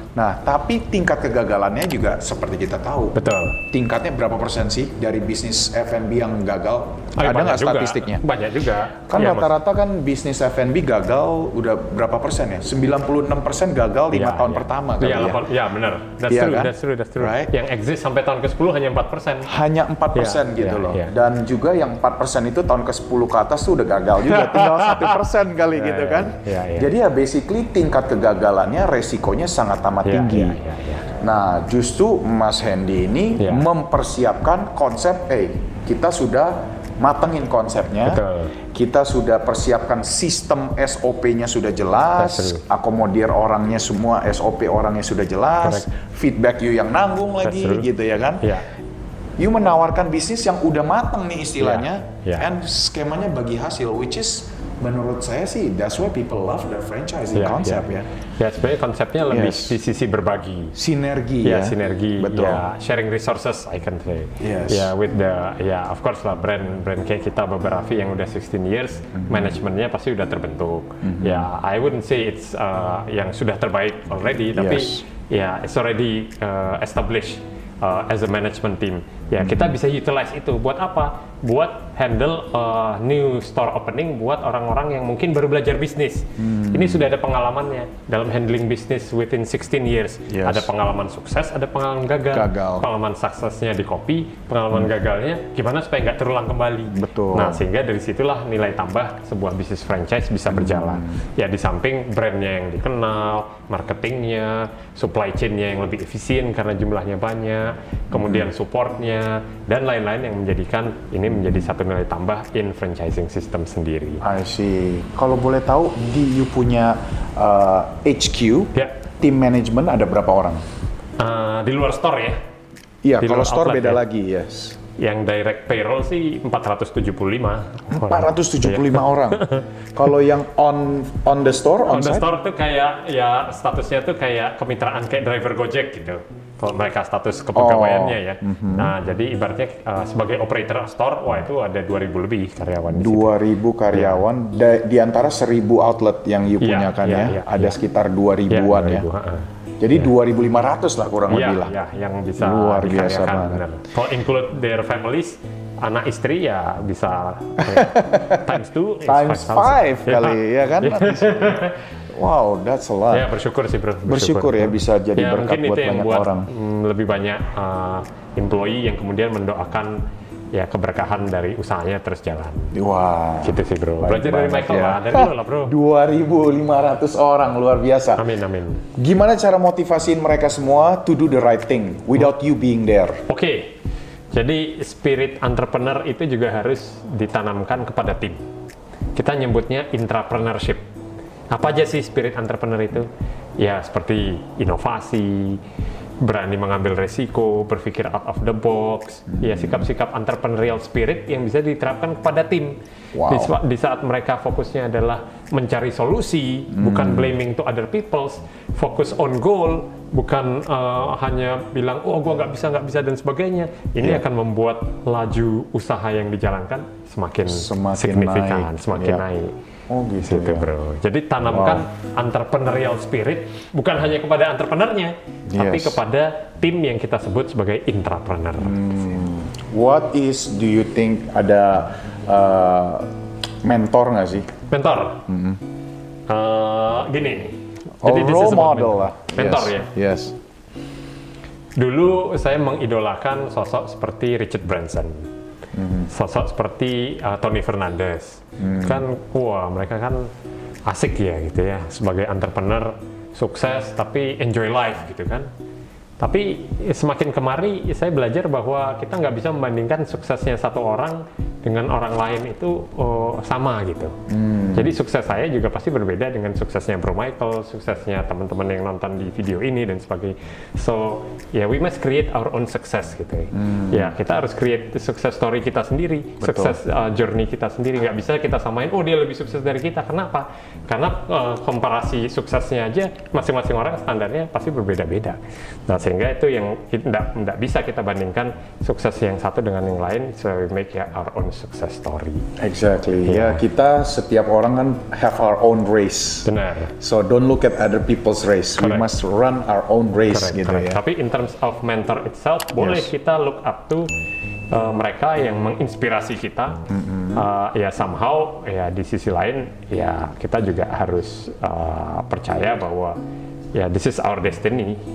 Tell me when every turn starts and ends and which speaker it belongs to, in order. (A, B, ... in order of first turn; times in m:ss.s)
0:00.1-0:08.2 A
0:03.1-0:03.6 B
0:07.2-0:09.5 B
0:09.1-0:15.4 A
0:14.1-0:19.5 B
0:16.2-0:17.5 A
0:19.4-0:30.6 A
0:20.1-0:21.1 B
0:24.2-0:26.9 B
0:30.0-0:31.1 B
0:31.1-0:48.5 A
0:33.4-0:33.7 B
0:38.0-0:38.5 B
0:42.2-0:42.6 B
0:47.4-0:47.9 B
0:49.4-0:58.1 A
0:51.6-0:52.4 B
0:57.3-0:57.8 B
0:58.4-1:00.7 B
0:59.3-0:59.8 A
1:00.7-1:02.6 A
1:01.4-1:54.2 B
1:04.4-1:04.9 A
1:09.2-1:09.6 A
1:11.0-1:11.5 A
1:14.5-1:15.0 A
1:19.4-1:19.7 A
1:26.4-1:27.1 A
1:30.3-1:30.7 A
1:32.3-1:32.9 A
1:36.9-1:37.6 A
1:40.5-1:41.2 A
1:48.1-1:48.5 A
1:51.3-1:51.7 A
1:54.2-2:00.6 A
2:01.2-2:02.4 B
2:03.0-2:04.8 A
2:03.2-2:04.0 B
2:05.0-2:09.6 B
2:07.9-2:12.3 A
2:11.9-2:23.4 B
2:17.5-2:18.9 A
2:22.9-2:29.1 A
2:23.9-2:24.2 B
2:26.6-2:27.8 B
2:28.5-2:30.1 B
2:29.8-2:31.7 A
2:31.3-2:41.8 B
2:32.4-2:33.6 A
2:37.6-2:38.5 A
2:39.0-2:43.3 A
2:43.1-2:50.0 B
2:44.0-2:46.5 A
2:50.5-2:52.7 B
2:52.7-2:58.2 A
2:53.4-2:55.7 B
2:58.2-2:58.8 B
2:59.0-3:03.2 A
3:03.3-3:03.8 B
3:04.3-3:08.4 B
3:09.2-3:10.8 B
3:11.5-3:15.6 B
3:16.2-3:39.5 B
3:19.3-3:19.8 A
3:23.1-3:23.5 A
3:26.7-3:27.3 A
3:37.5-3:39.2 A
3:39.9-3:40.7 A
3:40.2-3:48.8 B
3:41.4-3:41.8 A
3:45.5-3:46.0 A
3:48.6-3:53.1 A
3:53.6-3:54.5 A
3:54.7-3:55.2 B
3:55.3-3:55.6 A
3:56.3-3:59.9 B
3:58.0-4:00.4 A
4:01.8-4:05.3 B
4:05.7-4:06.1 A
4:06.1-4:10.3 B
4:08.6-4:09.0 A
4:10.8-4:15.5 B
4:16.2-4:24.1 B
4:24.3-4:24.9 A
4:24.7-4:52.4 B
4:33.5-4:34.1 A
4:36.4-4:36.8 A
4:52.6-5:01.0 A
4:53.2-4:53.6 B
4:56.4-4:56.9 B
4:58.8-4:59.1 B
5:00.3-5:04.1 B
5:02.8-5:03.1 A
5:04.7-5:13.2 B
5:06.9-5:07.4 A
5:13.7-5:15.0 B